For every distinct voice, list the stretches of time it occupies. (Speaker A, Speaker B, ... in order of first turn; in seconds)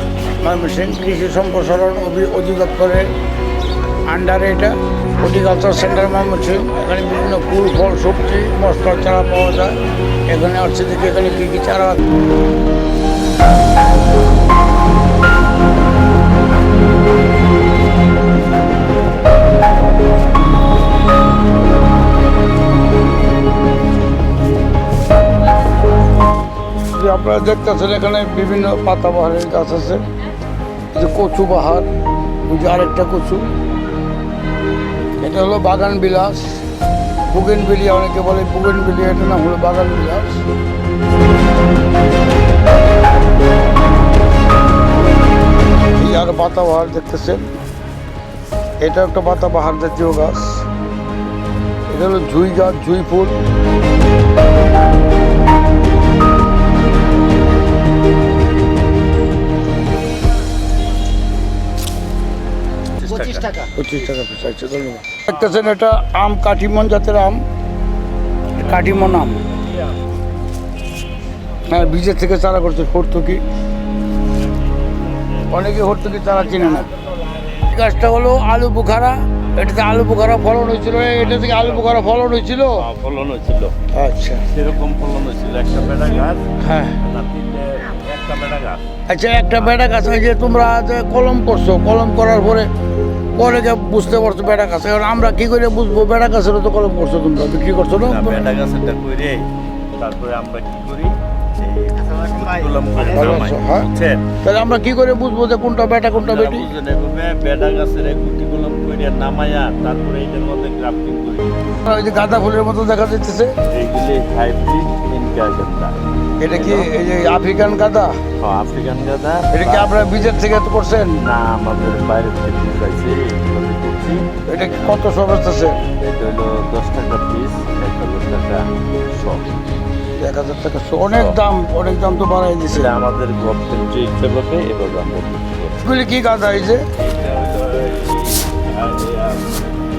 Speaker A: 0.4-3.1, 4.1-9.7, 10.3-12.0, 26.8-30.0, 30.9-31.9, 32.5-33.5, 35.2-36.6, 37.3-40.4, 46.0-47.4, 48.8-50.6, 51.9-53.3, 63.7-67.4, 68.6-69.4, 71.7-73.4, 75.5-76.9, 77.6-82.8, 83.9-84.4, 86.6-87.0, 89.1-92.7, 93.4-98.5, 103.1-103.9, 104.4-106.7, 111.8-113.5, 116.4-118.1, 119.5-121.2, 124.5-125.8, 130.2-132.9, 135.8-136.8
Speaker B: 63.0-63.6, 68.6-68.8, 69.5-70.0, 74.7-75.7, 81.4-81.9, 82.8-83.7, 84.5-86.4, 87.0-88.8, 98.0-99.4, 100.0-104.2, 106.1-111.6, 113.7-115.9, 116.5-116.9, 118.4-120.0, 121.2-124.3, 125.9-129.4, 131.1-131.4, 132.7-135.7, 137.0-139.6